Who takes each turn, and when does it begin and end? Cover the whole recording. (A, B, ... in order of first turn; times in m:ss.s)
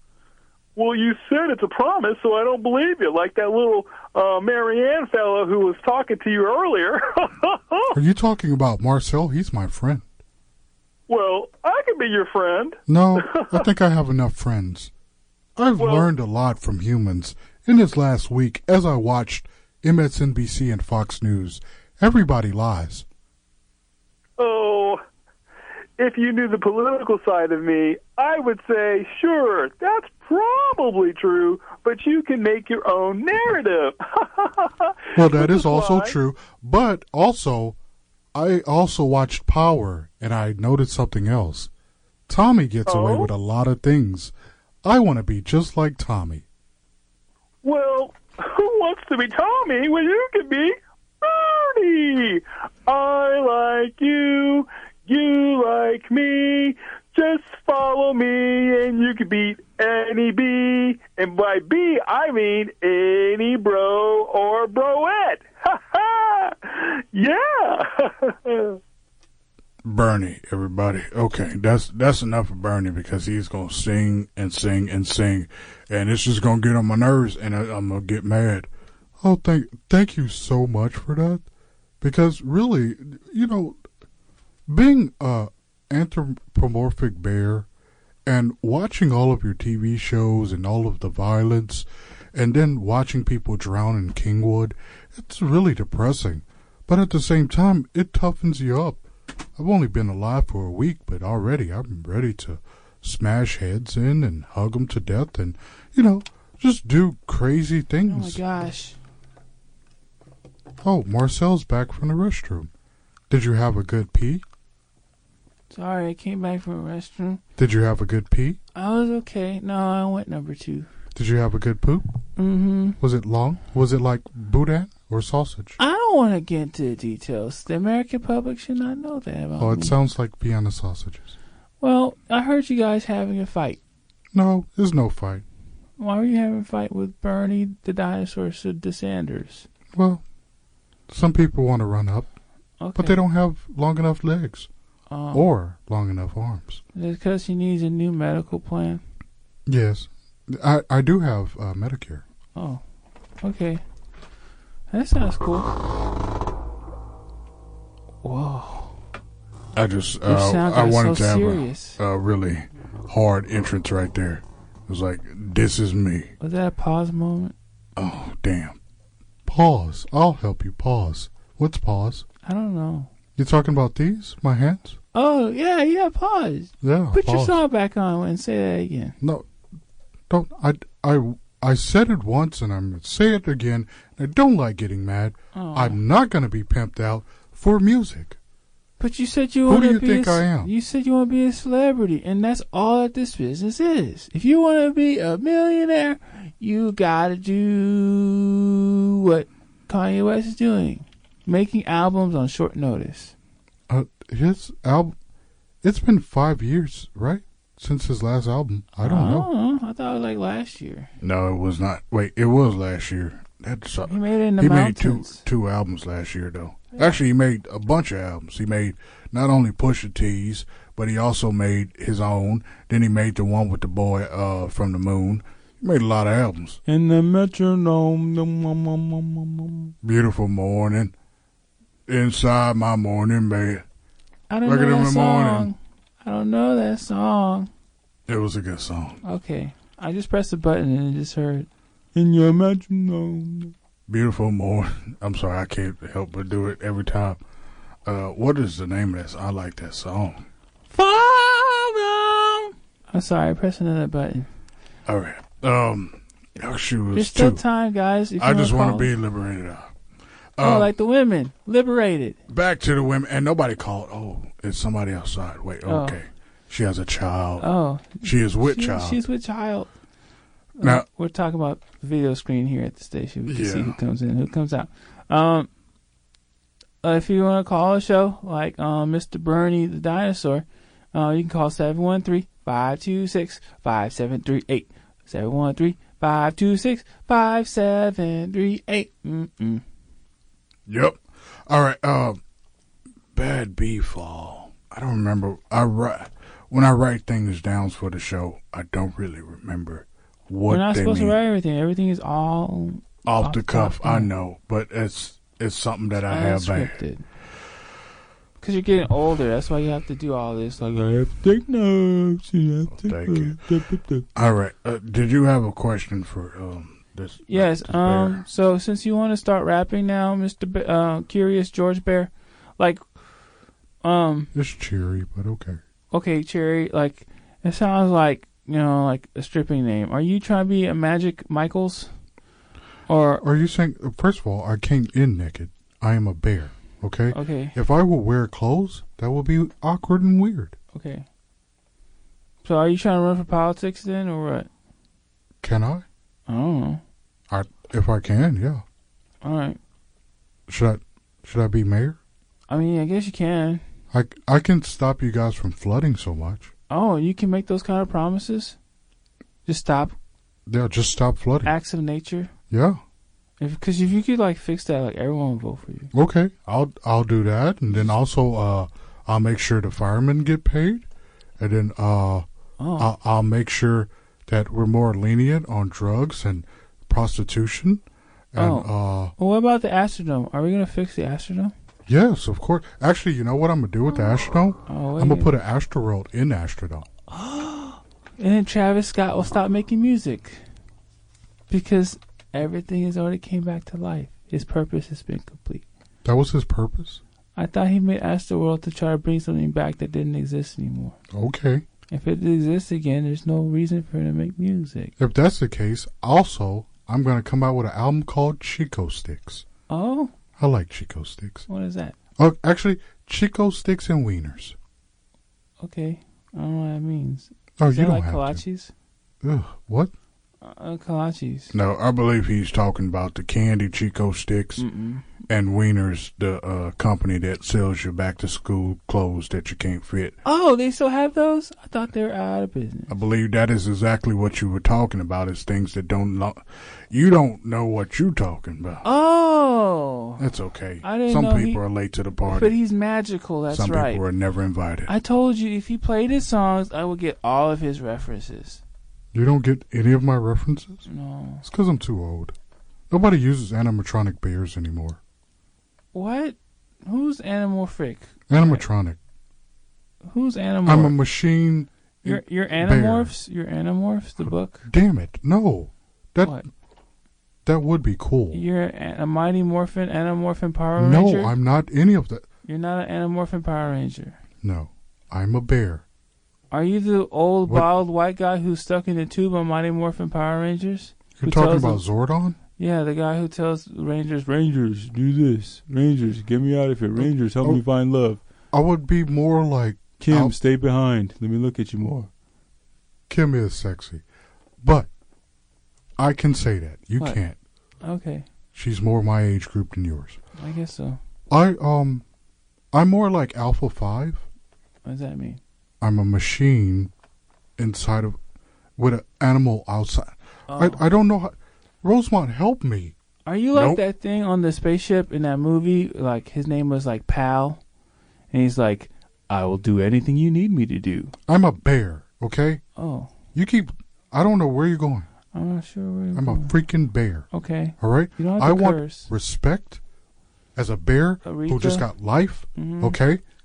0:00.8-0:08.0 A
0:07.9-0:10.1 B
0:11.1-0:13.7 A
0:12.9-0:14.9 B
0:15.6-0:23.1 B
0:15.8-0:16.1 A
0:24.4-0:25.0 A
0:26.0-0:36.2 A
0:35.2-0:37.8 B
0:38.3-0:41.7 B
0:42.3-0:44.3 B
0:42.9-0:43.3 A
0:44.8-0:46.4 B
0:47.6-1:08.8 A
1:09.8-1:18.7 B
1:19.2-1:21.4 B
1:22.0-1:23.8 B
1:24.7-1:27.7 B
1:28.3-1:39.0 B
1:39.6-1:48.4 B
1:48.1-1:49.0 C
1:50.8-1:52.7 B
1:53.3-1:54.4 B
1:55.7-1:57.4 C
1:57.6-1:58.6 B
1:58.8-2:00.9 C
2:01.2-2:02.1 B
2:02.4-2:03.0 C
2:03.0-2:05.8 B
2:05.8-2:10.0 C
2:09.6-2:11.3 B
2:11.8-2:13.8 C
2:14.3-2:15.4 B
2:16.0-2:19.7 C
2:19.9-2:20.2 B
2:21.1-2:22.3 B
2:22.8-2:23.2 C
2:23.0-2:24.7 B
2:25.1-2:25.5 C
2:25.3-2:26.8 B
2:27.0-2:29.0 C
2:29.7-2:32.2 B
2:32.6-2:32.8 C
2:33.4-2:33.8 C
2:34.9-2:35.7 C
2:38.2-2:38.9 C
2:39.8-2:46.3 B
2:40.3-2:42.0 C
2:46.4-2:47.5 C
2:48.0-2:48.8 B
2:49.5-2:52.2 B
2:52.4-2:53.1 C
2:53.4-2:55.0 B
2:55.1-2:59.2 C
2:56.8-2:57.6 B
2:59.2-2:59.5 B
3:00.3-3:08.4 B
3:05.5-3:06.0 C
3:09.0-3:23.3 C
3:09.7-3:10.7 B
3:23.9-3:25.2 B
3:25.8-3:29.5 B
3:29.0-3:31.1 C
3:31.2-3:46.8 B
3:34.1-3:35.4 C
3:46.9-3:49.9 C
3:50.0-3:51.1 B
3:52.1-3:53.8 B
3:54.5-3:57.7 C
3:54.6-3:55.7 B
3:58.3-3:59.2 B
3:59.2-4:03.7 C
4:04.1-4:07.4 B
4:08.1-4:10.4 B
4:10.9-4:14.5 C
4:15.1-4:17.6 B
4:17.1-4:19.1 C
4:18.4-4:19.9 B
4:20.6-4:20.9 B
4:20.6-4:22.4 C
4:22.5-4:27.7 B
4:25.9-4:26.2 C
4:27.6-4:29.9 C
4:28.2-4:29.2 B
4:30.8-4:35.7 C
4:33.5-4:34.0 B
4:37.0-4:49.8 C
4:50.9-4:52.4 B
4:53.3-5:01.4 B
5:00.7-5:04.3 C
5:03.2-5:07.0 B
5:06.3-5:07.2 C
5:08.6-5:14.2 C
5:12.9-5:13.6 B
5:14.4-5:18.4 B
5:17.5-5:23.0 C
5:24.0-5:24.5 C
5:24.6-5:25.8 B
5:26.1-5:32.1 C
5:33.1-5:33.4 C
5:33.4-5:40.8 B
5:37.3-5:37.8 C
5:40.9-5:41.3 C
5:42.6-5:44.7 C
5:45.6-5:46.0 B
5:46.5-5:47.0 C
5:47.5-5:48.8 B
5:49.4-5:49.8 C
5:50.7-5:52.2 B
5:52.7-5:53.8 C
5:54.1-5:56.7 B
5:56.9-5:58.8 C
5:59.7-6:00.2 C
6:00.7-6:01.7 B
6:01.6-6:02.5 C
6:02.7-6:03.0 B
6:03.6-6:06.1 C
6:06.1-6:11.1 B
6:11.6-6:12.5 B
6:12.8-6:13.1 C
6:13.0-6:19.3 B
6:18.6-6:21.7 C
6:22.1-6:27.1 B
6:24.9-6:25.5 C
6:27.3-6:30.6 C
6:31.7-6:35.8 C
6:36.2-6:37.2 B
6:37.6-6:41.2 C
6:41.3-6:41.8 B
6:42.1-6:45.1 C
6:45.2-6:49.6 B
6:49.9-6:50.3 C
6:50.6-6:51.7 B
6:51.7-6:52.2 C
6:52.4-6:54.8 B
6:55.8-6:58.9 C
6:57.8-6:58.6 B
6:59.4-7:00.1 B
7:00.6-7:01.7 C
7:01.7-7:04.8 B
7:04.8-7:05.3 C
7:05.5-7:10.4 B
7:10.4-7:13.1 C
7:13.1-7:19.0 B
7:19.0-7:20.4 C
7:20.4-7:22.7 B
7:21.0-7:21.8 C
7:22.5-7:24.2 C
7:23.7-7:25.1 B
7:25.1-7:28.8 C
7:29.3-7:31.0 B
7:31.0-7:31.6 C
7:31.6-7:32.6 B
7:33.1-7:35.2 B
7:36.1-7:38.8 C
7:38.5-7:39.2 B
7:40.3-7:41.2 C
7:40.9-7:43.3 B
7:42.2-7:44.9 C
7:44.9-7:46.6 B
7:47.7-7:48.6 B
7:48.5-7:51.5 C
7:51.0-7:52.4 B
7:52.7-7:54.4 C
7:54.6-7:56.0 B
7:56.7-8:02.0 C
8:01.4-8:02.6 B
8:02.8-8:08.4 C
8:07.2-8:07.8 B
8:08.7-8:10.6 B
8:10.2-8:12.3 C
8:13.3-8:14.2 B
8:14.8-8:15.1 B
8:16.2-8:17.6 B
8:18.0-8:18.5 C
8:18.8-8:20.4 B
8:20.6-8:21.2 C
8:21.5-8:22.2 B
8:22.9-8:24.4 B
8:25.0-8:25.6 C
8:26.0-8:27.1 B
8:27.8-8:28.4 B
8:29.0-8:33.2 B
8:30.7-8:31.0 C
8:33.5-8:37.8 C
8:33.7-8:34.0 B
8:38.5-8:41.3 C
8:41.5-8:42.8 B
8:43.0-8:43.3 C
8:43.6-8:45.3 B
8:45.5-8:46.7 C
8:46.4-8:47.5 B
8:47.5-8:49.3 C
8:48.0-8:50.0 B
8:50.8-8:53.4 B
8:51.4-8:52.1 C
8:52.8-8:53.2 C